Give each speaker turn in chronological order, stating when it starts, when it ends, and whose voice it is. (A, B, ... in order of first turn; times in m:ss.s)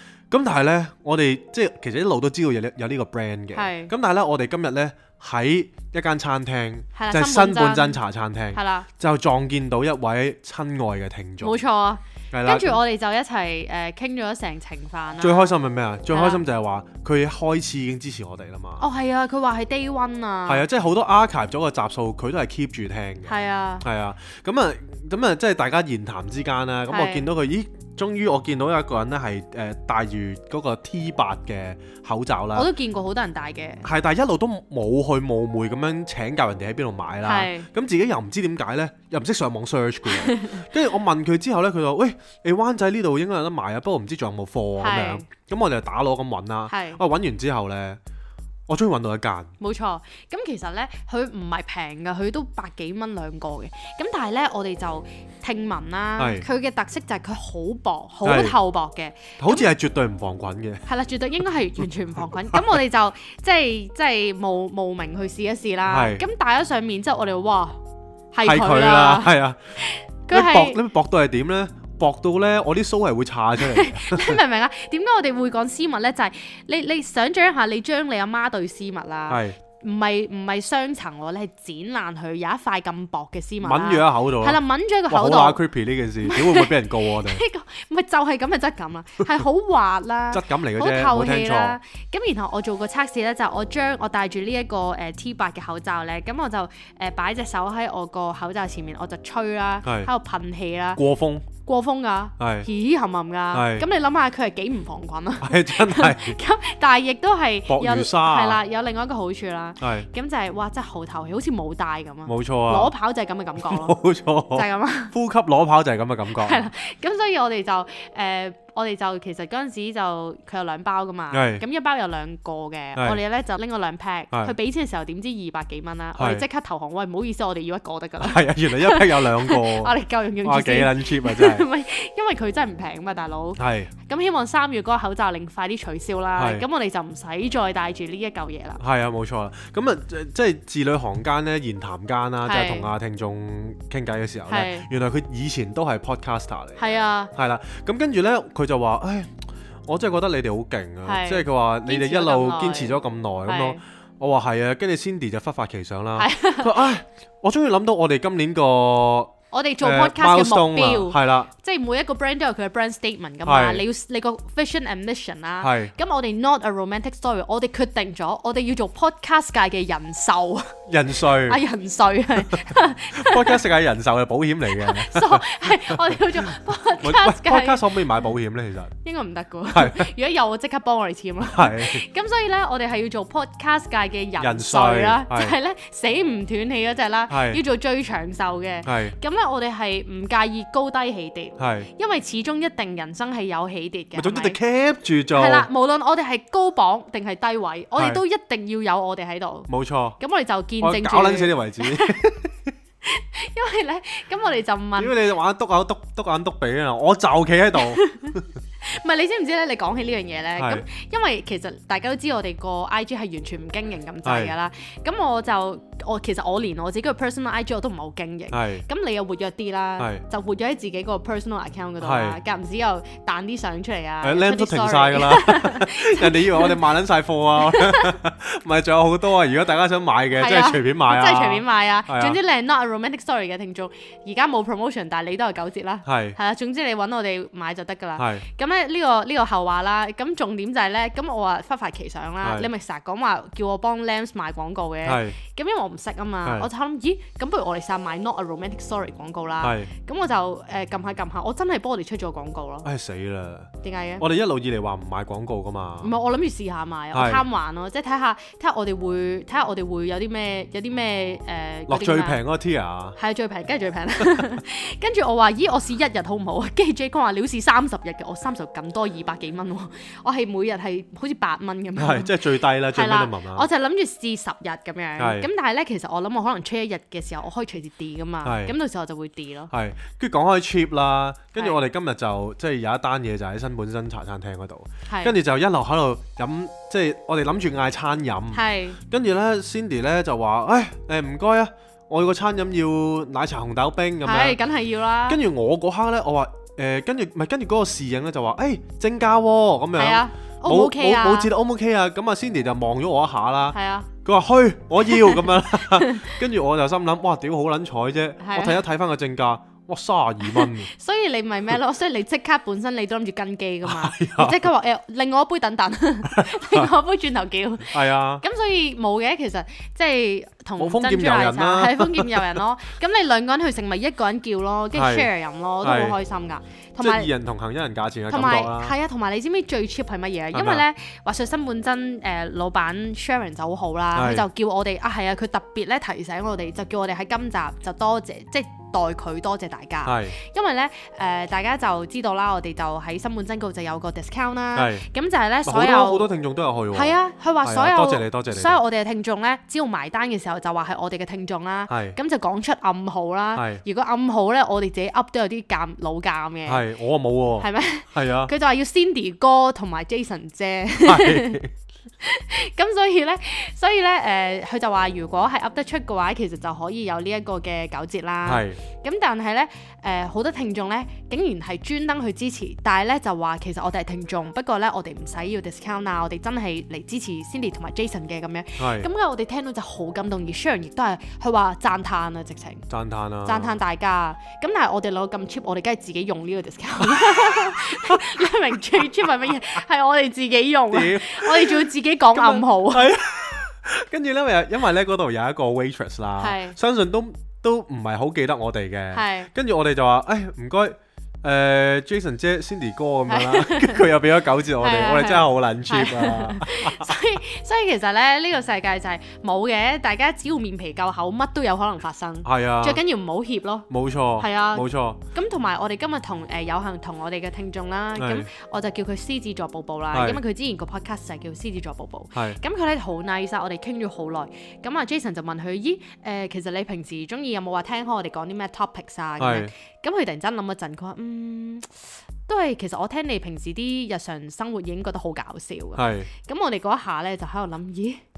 0:00.3-0:11.6 A
0:03.5-0:03.9 B
0:07.0-0:08.0 B
0:08.5-0:08.9 B
0:11.4-0:15.6 B
0:12.3-0:12.8 A
0:15.2-0:18.8 A
0:16.1-0:16.4 B
0:18.8-0:20.6 B
0:20.5-0:32.7 A
0:23.3-0:23.8 B
0:26.9-0:27.3 B
0:32.5-0:33.9 B
0:33.8-0:48.0 A
0:37.2-0:37.7 B
0:40.1-0:40.6 B
0:44.8-0:45.2 B
0:46.7-0:47.0 B
0:48.7-0:49.5 A
0:49.6-0:59.7 B
0:56.2-0:56.5 A
0:58.2-0:58.6 A
0:59.4-1:00.9 A
1:00.9-1:07.8 B
1:05.9-1:06.2 A
1:08.3-1:10.8 B
1:08.4-1:09.6 A
1:10.3-1:14.4 A
1:13.6-1:25.6 B
1:19.3-1:19.6 A
1:23.6-1:27.4 A
1:26.2-1:54.0 B
1:30.3-1:31.8 A
1:39.8-1:40.1 A
1:41.0-1:41.5 A
1:42.4-1:42.7 A
1:43.5-1:43.9 A
1:45.4-1:46.4 A
1:47.7-1:48.6 A
1:49.8-1:50.1 A
1:52.3-1:52.9 A
1:53.6-1:56.7 A
1:54.5-1:55.1 B
1:56.3-2:18.8 B
2:01.3-2:01.6 A
2:03.0-2:03.2 A
2:06.2-2:06.4 A
2:08.2-2:11.7 A
2:13.6-2:13.9 A
2:16.4-2:16.6 A
2:18.8-2:29.3 A
2:22.4-2:22.9 B
2:24.5-2:24.9 B
2:26.8-2:27.3 B
2:29.9-2:41.5 A
2:31.0-2:33.8 B
2:36.2-2:36.9 B
2:39.5-2:53.6 B
2:43.4-2:43.8 A
2:45.6-2:45.9 A
2:50.9-2:51.6 A
2:52.5-2:59.0 A
2:54.7-2:58.0 B
2:59.0-3:14.6 B
2:59.7-3:00.1 A
3:01.4-3:02.0 A
3:04.4-3:05.6 A
3:07.3-3:07.6 A
3:08.8-3:09.2 A
3:11.6-3:11.9 A
3:14.2-3:15.7 A
3:15.3-3:22.2 B
3:18.0-3:18.2 A
3:19.7-3:20.2 A
3:20.8-3:22.6 A
3:23.0-3:25.2 B
3:25.0-3:28.5 A
3:27.8-3:46.8 B
3:30.6-3:30.9 A
3:34.2-3:34.5 A
3:38.5-3:38.8 A
3:40.0-3:40.2 A
3:42.0-3:42.4 A
3:44.2-3:52.4 A
3:47.6-3:48.1 B
3:50.3-4:12.9 B
3:56.0-3:56.4 A
3:58.2-3:58.5 A
4:02.4-4:02.7 A
4:05.0-4:05.4 A
4:06.4-4:06.7 A
4:09.6-4:09.9 A
4:12.8-4:16.1 A
4:13.8-4:14.2 B
4:16.0-4:22.4 B
4:17.1-4:17.4 A
4:21.9-4:23.2 A
4:23.2-4:39.7 B
4:32.0-4:33.7 A
4:35.2-4:35.5 A
4:38.4-4:38.7 A
4:39.7-4:54.6 A
4:45.1-4:45.4 B
4:48.5-4:49.0 B
4:54.2-4:55.4 B
4:55.3-5:10.9 A
5:00.0-5:01.5 B
5:03.7-5:04.1 B
5:05.1-5:06.4 B
5:08.4-5:08.8 B
5:10.4-5:27.3 B
5:13.8-5:14.6 A
5:16.3-5:16.9 A
5:17.9-5:18.4 A
5:20.8-5:22.6 A
5:24.9-5:25.3 A
5:25.8-5:26.2 A
5:27.0-5:29.0 A
5:28.3-5:46.3 B
5:30.5-5:30.8 A
5:34.2-5:34.5 A
5:40.0-5:40.4 A
5:44.8-5:45.1 A
5:45.6-5:48.8 A
5:46.9-5:56.9 B
5:51.9-5:52.2 A
5:53.6-5:53.8 A
5:56.7-5:58.5 A
5:57.6-6:01.6 B
6:01.0-6:01.7 A
6:02.2-6:22.9 B
6:08.4-6:08.8 A
6:18.8-6:19.1 A
6:22.9-6:23.8 A
6:23.4-6:33.1 B
6:27.0-6:29.0 A
6:30.9-6:47.2 A
6:36.4-6:36.8 B
6:39.1-6:39.5 B
6:43.3-6:44.1 B
6:44.8-7:18.2 B
6:52.4-6:53.0 A
6:53.9-6:55.2 A
6:58.2-6:58.5 A
7:00.1-7:00.4 A
7:02.4-7:02.6 A
7:09.4-7:09.7 A
7:16.0-7:16.3 A